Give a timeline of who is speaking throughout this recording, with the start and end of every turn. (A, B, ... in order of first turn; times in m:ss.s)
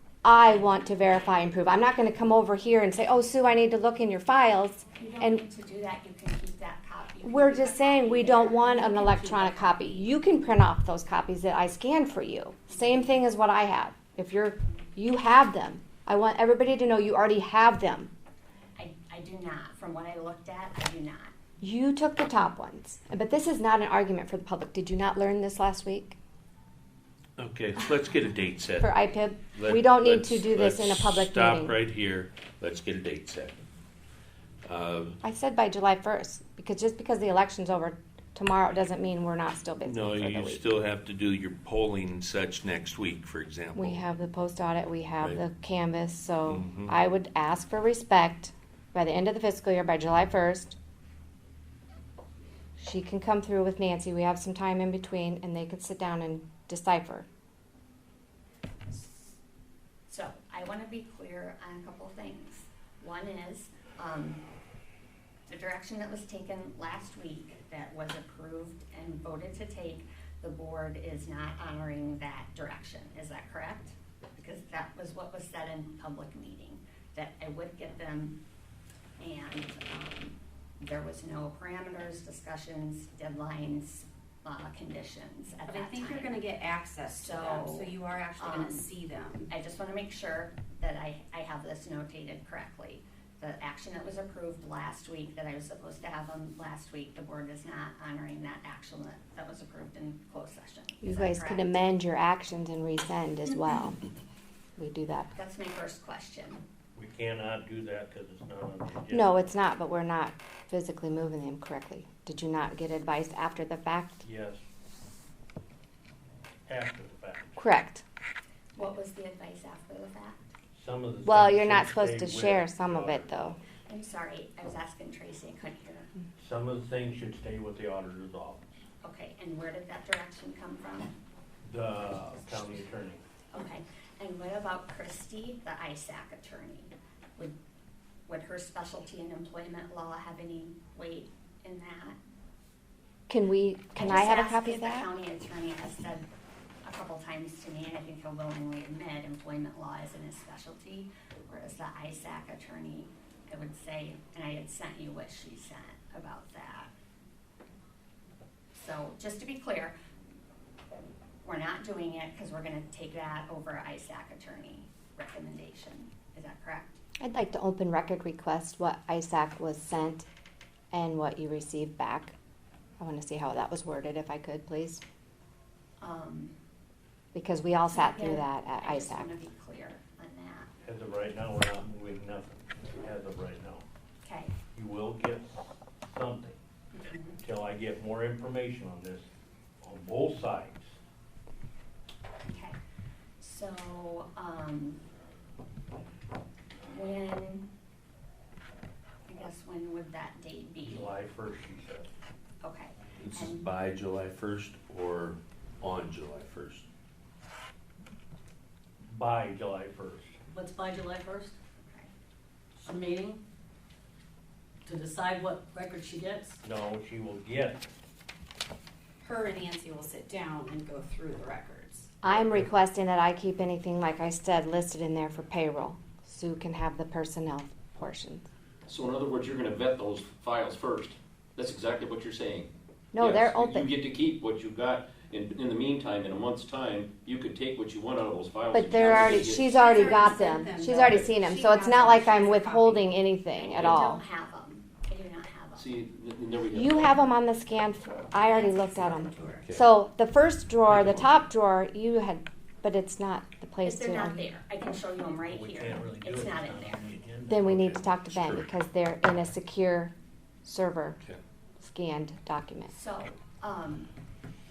0:00.2-0:05.4 A
0:05.0-0:09.4 B
0:07.2-0:18.1 A
0:08.6-0:10.0 C
0:12.7-0:13.2 B
0:18.8-0:21.3 B
0:21.6-0:26.2 A
0:27.4-0:28.9 D
0:28.8-0:31.7 A
0:29.5-0:33.6 D
0:34.6-0:35.2 D
0:35.2-0:40.6 A
0:39.8-0:44.0 D
0:43.7-0:50.8 A
0:46.4-0:47.0 D
0:52.8-0:57.2 A
0:58.9-0:59.4 B
1:00.1-1:04.4 B
1:05.5-1:18.4 B
1:19.2-1:26.5 B
1:25.6-1:29.5 C
1:27.0-1:28.9 B
1:29.5-1:41.8 B
1:41.0-1:44.0 A
1:44.8-1:45.3 A
1:45.3-1:46.6 B
1:47.0-1:49.5 E
1:49.1-1:54.2 A
1:54.2-1:54.6 E
1:56.7-1:57.6 E
1:57.6-1:58.0 A
1:58.7-2:00.5 B
2:00.7-2:03.3 E
2:01.2-2:03.6 A
2:03.9-2:06.1 B
2:06.4-2:08.6 E
2:09.0-2:11.1 B
2:11.6-2:13.2 E
2:13.5-2:17.6 B
2:18.3-2:22.2 B
2:23.3-2:25.1 A
2:24.0-2:26.3 B
2:26.8-2:36.9 B
2:38.7-2:39.9 B
2:41.4-2:47.0 B
2:47.2-2:50.2 A
2:50.9-2:52.3 A
2:53.0-2:55.0 A
2:56.0-2:56.5 B
2:57.3-2:59.3 A
2:57.9-3:00.7 B
3:00.8-3:03.8 E
3:04.2-3:04.5 B
3:04.7-3:06.6 E
3:06.9-3:07.4 B
3:07.4-3:09.3 E
3:09.8-3:10.9 E
3:12.4-3:12.8 B
3:13.4-3:15.0 B
3:16.9-3:17.7 B
3:19.3-3:21.1 B
3:20.8-3:22.1 E
3:22.6-3:23.7 B
3:23.2-3:26.8 D
3:29.1-3:30.3 E
3:30.5-3:31.6 F
3:31.8-3:32.1 B
3:32.8-3:33.4 F
3:34.8-3:36.6 F
3:36.6-3:37.9 E
3:39.2-3:42.2 C
3:42.2-3:48.5 A
3:48.9-3:59.8 G
3:53.1-3:53.9 A
3:58.7-4:04.2 A
3:59.2-4:03.2 C
4:03.6-4:05.9 B
4:05.7-4:07.2 G
4:06.7-4:14.4 A
4:08.3-4:09.7 C
4:09.7-4:09.9 D
4:10.9-4:11.3 D
4:13.8-4:17.2 B
4:15.4-4:17.7 E
4:17.5-4:20.1 A
4:17.6-4:18.7 D
4:20.6-4:21.2 A
4:21.8-4:22.9 A
4:22.9-4:24.1 B